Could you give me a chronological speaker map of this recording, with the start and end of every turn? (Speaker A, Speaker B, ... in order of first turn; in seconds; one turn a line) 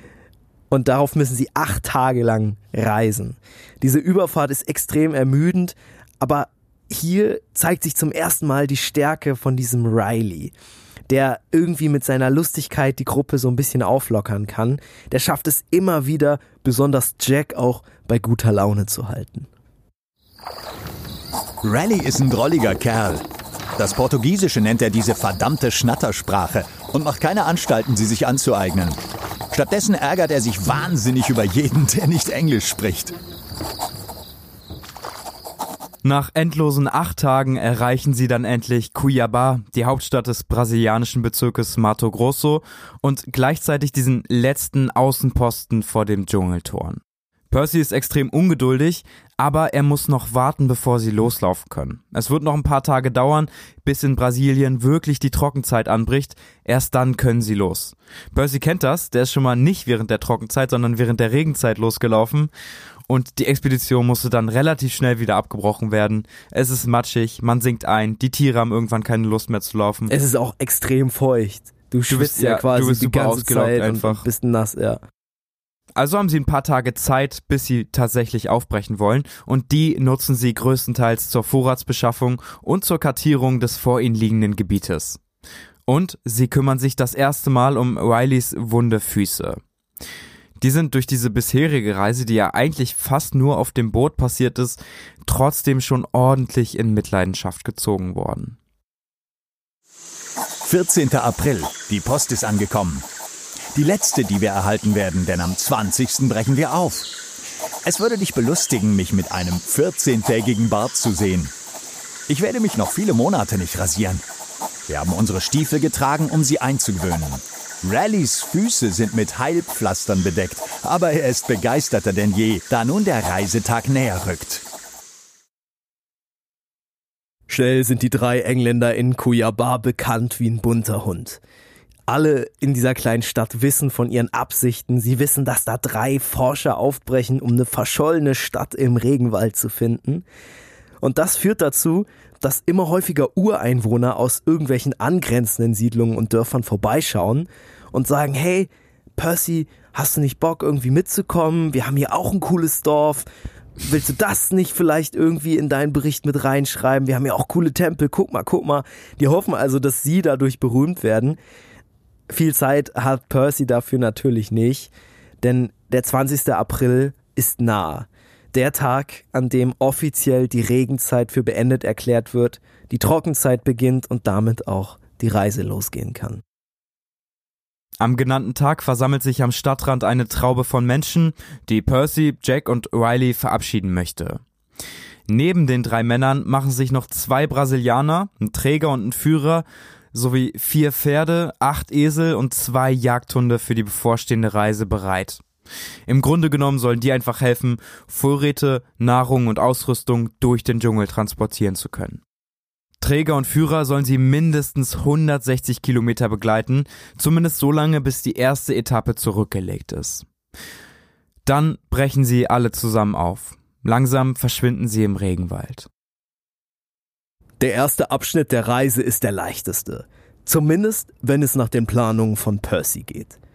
Speaker A: 0.7-10.5
Speaker A: 11.1-19.5
Speaker B: 21.6-23.2
Speaker B: 23.8-29.0
Speaker B: 29.5-33.1
Speaker C: 36.0-62.5
Speaker C: 63.1-70.1
Speaker A: 70.1-75.0
Speaker C: 72.1-74.2
Speaker C: 76.0-85.2
Speaker C: 85.9-89.6
Speaker C: 90.6-98.6
Speaker B: 100.6-103.0
Speaker B: 103.7-107.1
Speaker B: 107.8-111.5
Speaker B: 112.3-114.2
Speaker B: 114.9-124.6
Speaker A: 127.5-131.4
Speaker A: 132.1-140.2
Speaker A: 141.0-153.2
Speaker A: 153.8-161.4
Speaker A: 162.3-176.4
Speaker C: 178.0-184.4
Speaker C: 185.3-195.4
Speaker C: 196.1-202.2
Speaker C: 203.0-210.2
Speaker C: 211.4-215.9
Speaker A: 217.6-223.4